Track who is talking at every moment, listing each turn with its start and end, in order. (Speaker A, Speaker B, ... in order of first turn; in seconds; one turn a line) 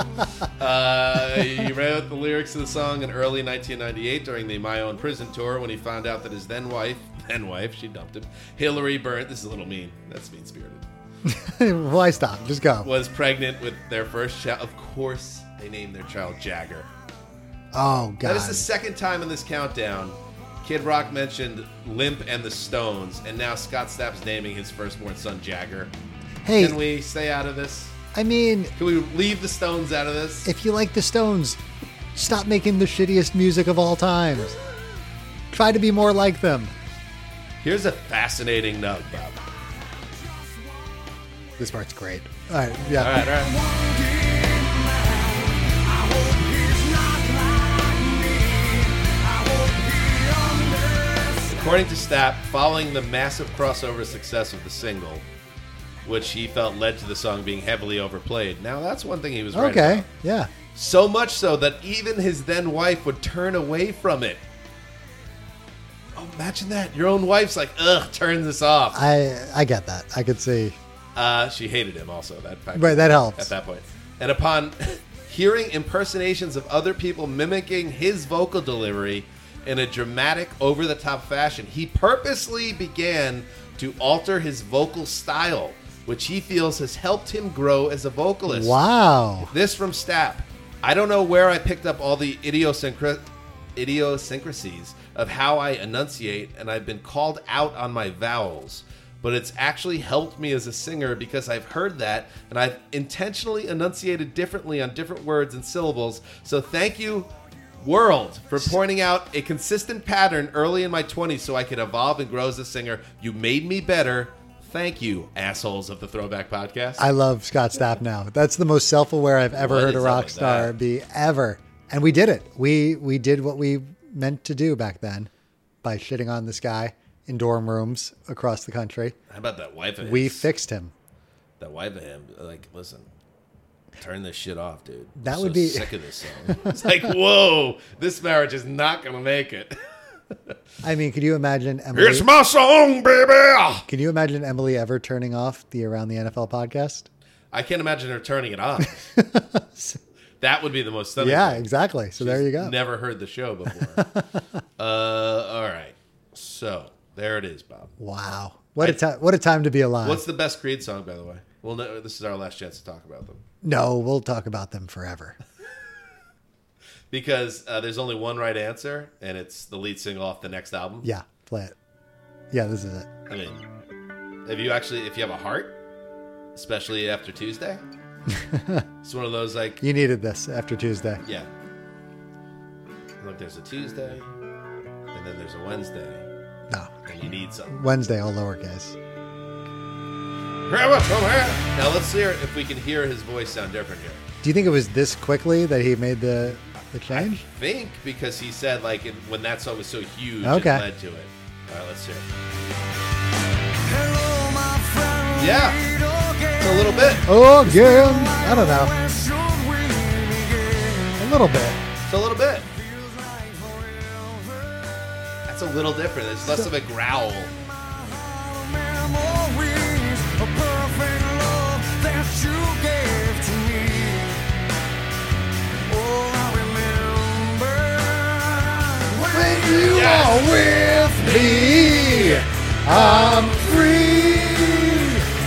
Speaker A: 0.6-10.8
Speaker B: 11.2-12.9
Speaker A: 12.8-16.9
Speaker B: 17.7-18.7
Speaker A: 18.2-25.9
Speaker B: 26.4-26.8
Speaker A: 26.6-27.9
Speaker B: 28.1-28.7
Speaker A: 28.8-30.5
Speaker B: 30.4-31.6
Speaker B: 32.1-34.6
Speaker B: 35.5-36.7
Speaker A: 37.6-39.4
Speaker B: 41.6-43.2
Speaker A: 43.0-43.5
Speaker A: 51.5-55.2
Speaker A: 56.0-60.0
Speaker B: 59.5-60.5
Speaker A: 60.7-64.4
Speaker A: 66.1-69.0
Speaker B: 68.9-70.8
Speaker A: 71.1-88.8
Speaker B: 72.8-73.5
Speaker B: 88.5-89.5
Speaker A: 89.4-93.2
Speaker A: 93.8-107.3
Speaker A: 107.8-117.1
Speaker B: 117.0-125.3
Speaker A: 119.5-120.7
Speaker B: 125.8-129.2
Speaker A: 129.3-130.5
Speaker B: 130.0-130.9
Speaker A: 131.6-133.1
Speaker A: 134.0-139.8
Speaker B: 135.2-135.9
Speaker B: 140.8-142.3
Speaker A: 141.9-143.8
Speaker B: 143.9-147.1
Speaker A: 147.5-149.0
Speaker B: 149.1-150.0
Speaker A: 150.4-154.1
Speaker B: 151.2-152.7
Speaker B: 154.0-154.4
Speaker A: 154.8-157.9
Speaker B: 158.0-160.2
Speaker A: 160.0-163.4
Speaker B: 163.6-165.4
Speaker A: 167.1-171.1
Speaker B: 171.0-171.7
Speaker B: 172.5-173.1
Speaker A: 173.3-173.6
Speaker A: 174.4-175.8
Speaker A: 176.5-177.8
Speaker B: 178.3-178.8
Speaker A: 179.0-179.8
Speaker B: 179.8-181.2
Speaker A: 181.2-181.5
Speaker A: 183.2-184.3
Speaker A: 185.1-186.2
Speaker A: 187.1-187.8
Speaker B: 187.7-189.0
Speaker A: 190.7-194.2
Speaker B: 194.4-197.4
Speaker A: 197.1-202.2
Speaker B: 200.4-200.8
Speaker C: 204.9-205.7
Speaker A: 205.3-205.8
Speaker A: 206.6-207.3
Speaker B: 207.2-208.9
Speaker B: 211.2-211.8
Speaker A: 212.1-212.7
Speaker A: 215.5-217.5
Speaker C: 220.6-221.6
Speaker C: 222.2-222.9
Speaker B: 229.1-235.3
Speaker A: 229.8-230.5
Speaker A: 231.2-232.4
Speaker A: 232.9-233.4